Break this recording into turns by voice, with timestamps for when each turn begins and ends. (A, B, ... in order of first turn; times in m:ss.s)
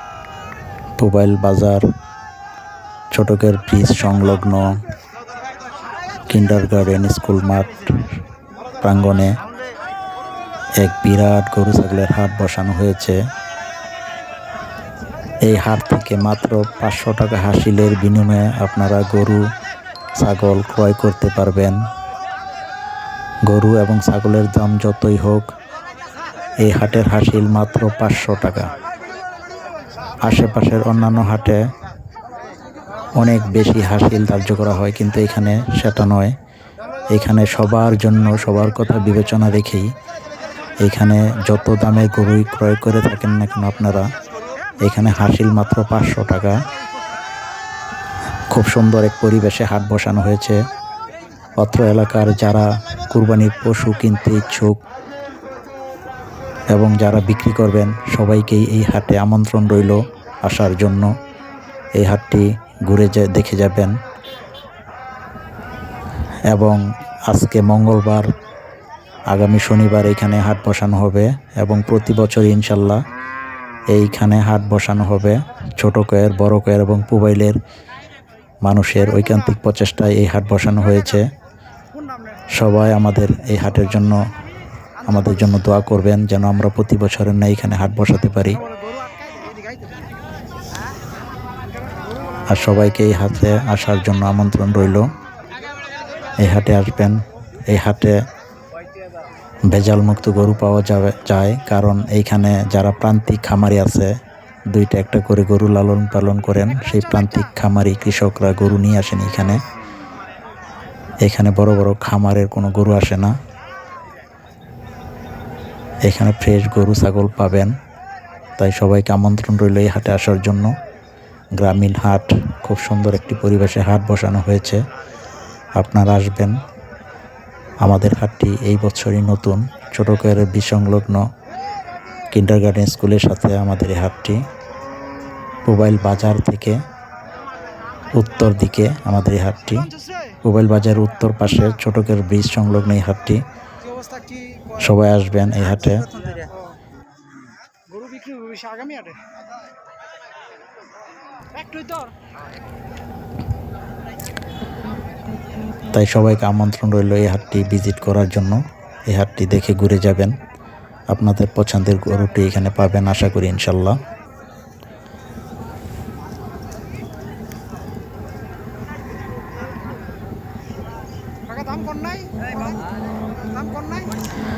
0:01.0-0:01.8 A
0:03.1-0:04.7 A
0:06.3-0:08.1 A
0:08.8-0:09.4 A
0:10.8-0:13.2 A
0:15.4-0:19.4 A
0:20.2-0:21.8 A
0:23.5-0:25.5 A
0:26.6-0:28.7 A
0:30.2-0:31.6 A
0:33.2-0:36.3 A
0:37.1-0:39.9 A
0:40.8-0:44.1 A
0:44.8-0:46.6 A
0:48.5-0:50.6 A
0:51.6-0:54.8 A
0:56.7-1:01.1 A
1:02.0-1:03.9 A
1:06.5-1:08.3 A
1:09.3-1:13.0 A
1:13.9-1:17.6 A
1:18.6-1:21.3 A
1:22.5-1:24.2 A
1:25.0-1:28.6 A
1:28.8-1:30.0 B
1:32.5-1:35.1 A
1:36.4-1:38.2 A
1:39.7-1:44.1 A
1:44.7-1:49.6 A
1:51.2-1:53.4 A
1:56.0-1:57.7 A
1:58.6-2:00.7 A
2:01.6-2:04.8 A
2:05.8-2:06.6 A
2:07.8-2:11.2 A
2:12.3-2:14.4 A
2:15.6-2:16.8 A
2:18.1-2:23.4 A
2:20.0-2:20.3 B
2:23.9-2:24.8 B
2:24.7-2:26.1 A
2:26.2-2:26.7 B
2:27.9-2:29.2 B
2:31.5-2:32.1 B
2:35.9-2:40.4 A
2:41.1-2:44.0 A
2:51.5-2:52.8 B
2:53.4-2:54.2 B